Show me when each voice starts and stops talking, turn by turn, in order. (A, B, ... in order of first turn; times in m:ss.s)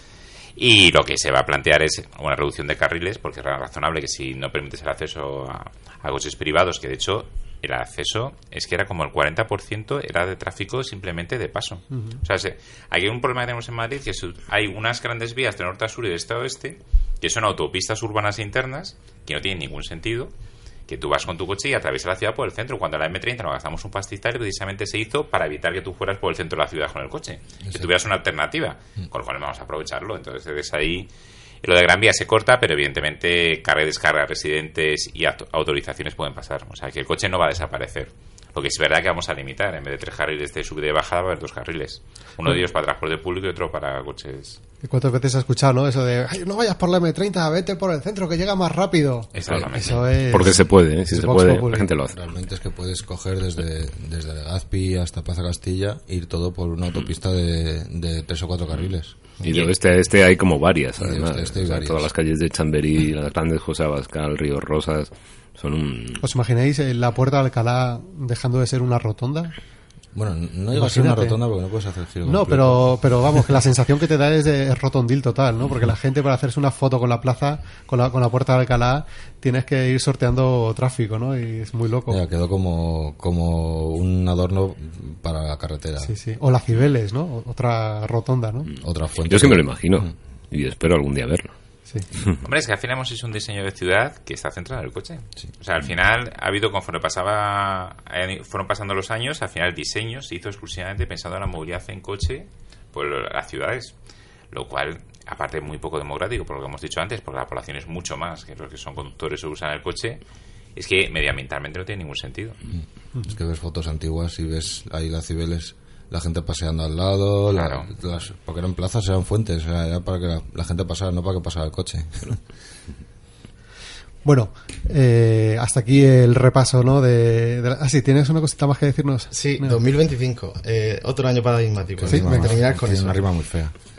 0:00.6-0:20.3 A
0:11.9-0:12.2 B
0:20.9-0:31.1 A
0:31.6-0:44.6 A
0:44.8-0:51.9 B
0:49.3-0:50.1 A
0:50.3-0:52.1 C
0:52.1-0:59.2 D
0:59.4-1:06.2 C
0:59.5-0:59.7 A
1:01.0-1:02.1 D
1:06.2-1:09.5 B
1:10.1-1:13.0 D
1:10.7-1:11.4 B
1:12.2-1:22.2 B
1:22.1-1:26.1 D
1:26.0-1:28.7 B
1:28.8-1:30.1 D
1:29.3-1:31.5 C
1:32.4-1:43.9 A
1:44.5-1:50.2 A
1:50.7-1:52.6 A
1:52.7-2:02.4 D
1:57.5-1:57.9 A
2:04.2-2:09.8 B
2:09.3-2:13.3 E
2:12.0-2:13.7 D
2:12.1-2:12.5 B